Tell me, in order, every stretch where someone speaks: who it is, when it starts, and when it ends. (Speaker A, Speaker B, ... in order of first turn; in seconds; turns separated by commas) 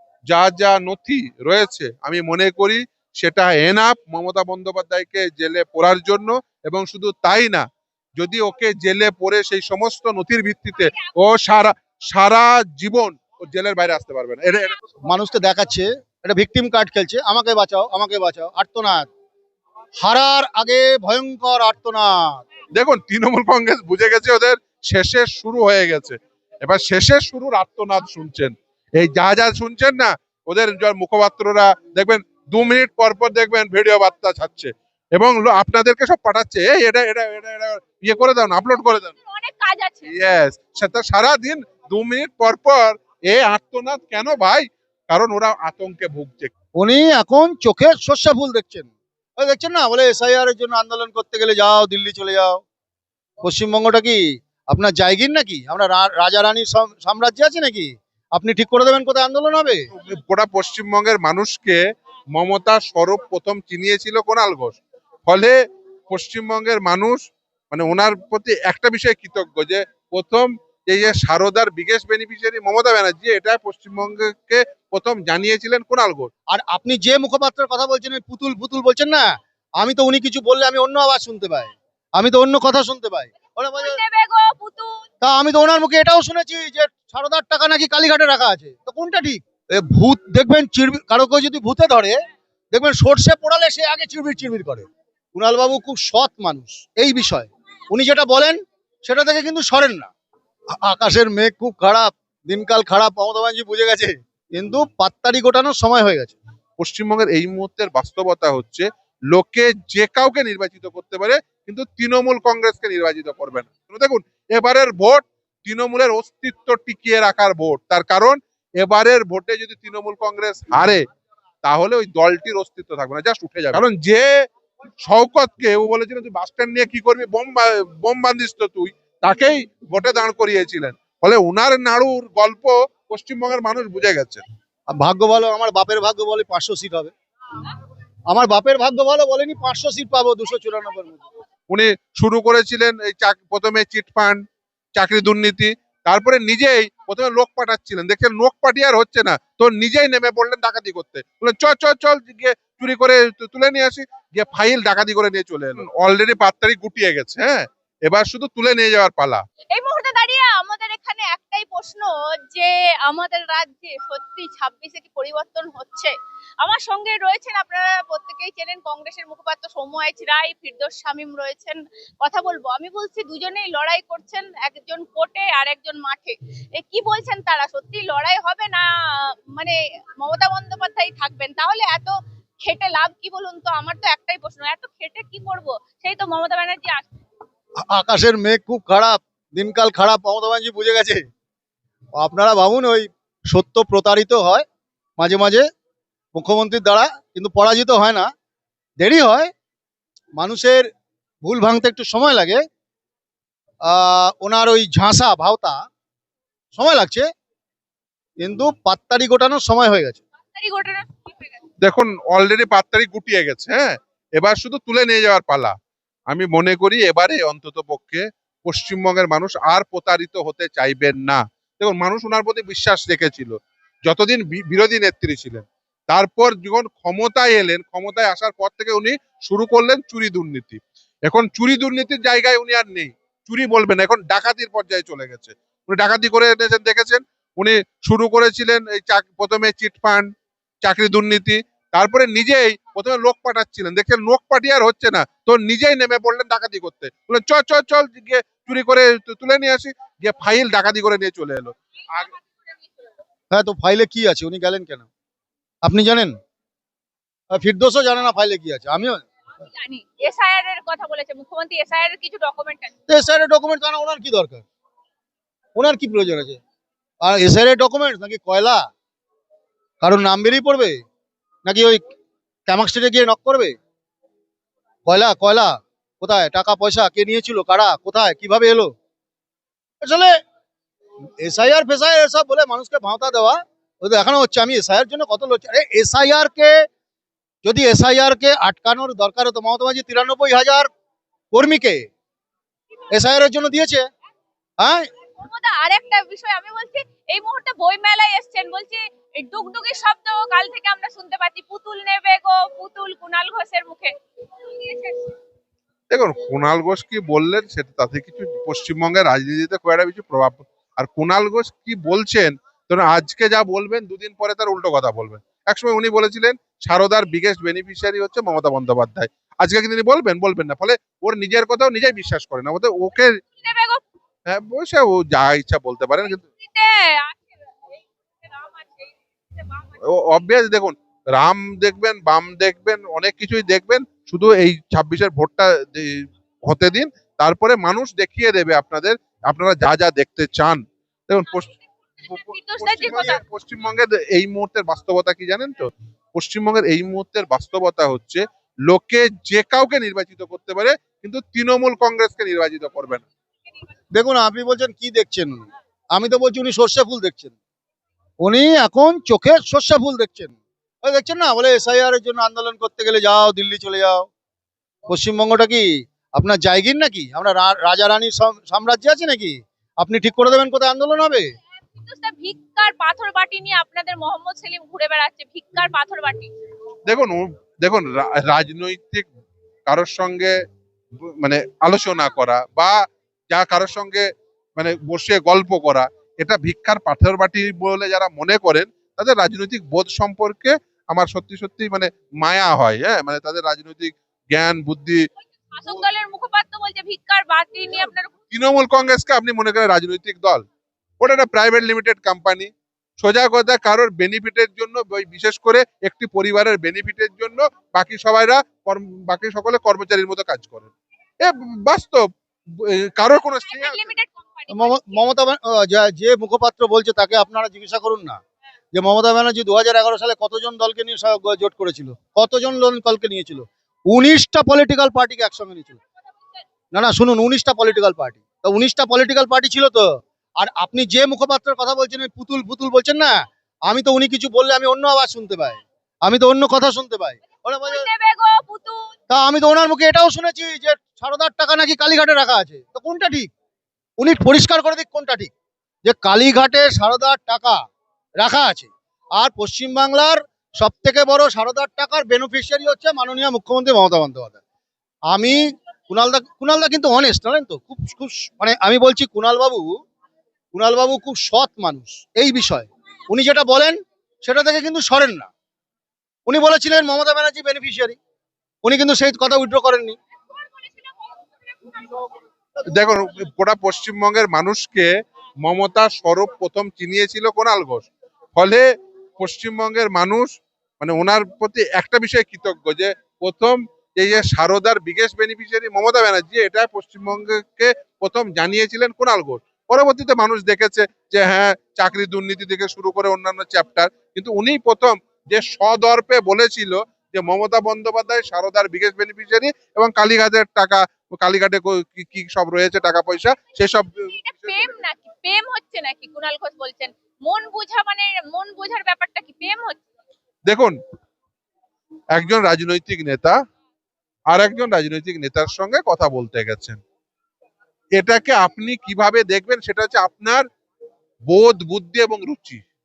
Speaker A: 0.3-7.6, Speaker A: 8.2-14.8, Speaker B: 10.8-11.1, Speaker C: 15.1-19.1, Speaker C: 20.0-22.4, Speaker A: 22.7-39.1, Speaker B: 39.2-40.1, Speaker A: 40.0-46.5, Speaker C: 46.8-52.6, Speaker C: 53.4-59.9, Speaker A: 59.9-61.8, Speaker A: 62.3-65.5, Speaker A: 66.1-76.3, Speaker C: 76.5-84.0, Speaker B: 83.8-85.0, Speaker C: 85.2-92.2, Speaker C: 92.7-100.1, Speaker C: 100.8-106.3, Speaker A: 106.8-121.0, Speaker A: 121.6-124.3, Speaker A: 125.0-134.4, Speaker C: 134.9-137.1, Speaker C: 138.3-141.2, Speaker A: 141.7-144.4, Speaker A: 144.9-159.4, Speaker B: 159.7-187.2, Speaker C: 187.8-191.2, Speaker C: 192.2-194.6, Speaker C: 195.2-195.6, Speaker C: 196.3-198.3, Speaker C: 199.0-199.5, Speaker C: 200.4-200.9, Speaker C: 201.4-202.6, Speaker C: 203.8-205.8, Speaker C: 206.7-207.3, Speaker C: 208.4-210.2, Speaker B: 210.5-211.6, Speaker A: 211.8-215.7, Speaker A: 216.3-240.3, Speaker A: 240.8-252.3, Speaker C: 253.5-255.1, Speaker C: 255.8-256.3, Speaker C: 257.5-259.2, Speaker B: 259.7-262.9, Speaker C: 263.1-264.6, Speaker C: 265.8-266.6, Speaker C: 267.2-268.8, Speaker C: 270.0-271.0, Speaker C: 271.6-272.0, Speaker C: 272.7-273.7, Speaker C: 275.1-278.9, Speaker C: 280.0-280.3, Speaker C: 281.4-286.8, Speaker C: 287.6-290.9, Speaker C: 291.5-292.0, Speaker C: 293.1-294.1, Speaker C: 294.8-295.1, Speaker B: 295.4-304.1, Speaker B: 304.6-305.3, Speaker A: 306.1-323.4, Speaker B: 323.5-324.0, Speaker A: 324.5-326.4, Speaker B: 326.2-327.5, Speaker B: 328.4-330.0, Speaker A: 330.0-341.7, Speaker B: 342.2-343.4, Speaker A: 342.3-353.2, Speaker C: 354.1-357.5, Speaker C: 358.4-364.2, Speaker C: 365.1-371.5, Speaker B: 371.9-376.5, Speaker A: 377.1-379.3, Speaker A: 379.9-380.5, Speaker A: 381.2-395.2, Speaker B: 395.7-398.4, Speaker A: 398.5-400.6, Speaker A: 401.2-414.1, Speaker B: 413.6-415.2, Speaker C: 414.7-418.4, Speaker C: 418.9-426.0, Speaker C: 426.9-438.1, Speaker B: 437.9-439.1, Speaker C: 439.3-443.5, Speaker C: 444.2-445.5, Speaker C: 446.0-447.8, Speaker C: 448.4-454.6, Speaker C: 455.3-459.9, Speaker C: 460.7-465.5, Speaker C: 466.5-468.2, Speaker C: 468.8-470.2, Speaker B: 470.5-472.2, Speaker A: 472.8-475.1, Speaker A: 475.6-478.8, Speaker A: 479.4-504.9, Speaker B: 504.1-510.0, Speaker A: 510.7-510.9, Speaker A: 512.4-513.6, Speaker A: 514.5-517.0, Speaker A: 518.1-520.6, Speaker A: 521.5-522.8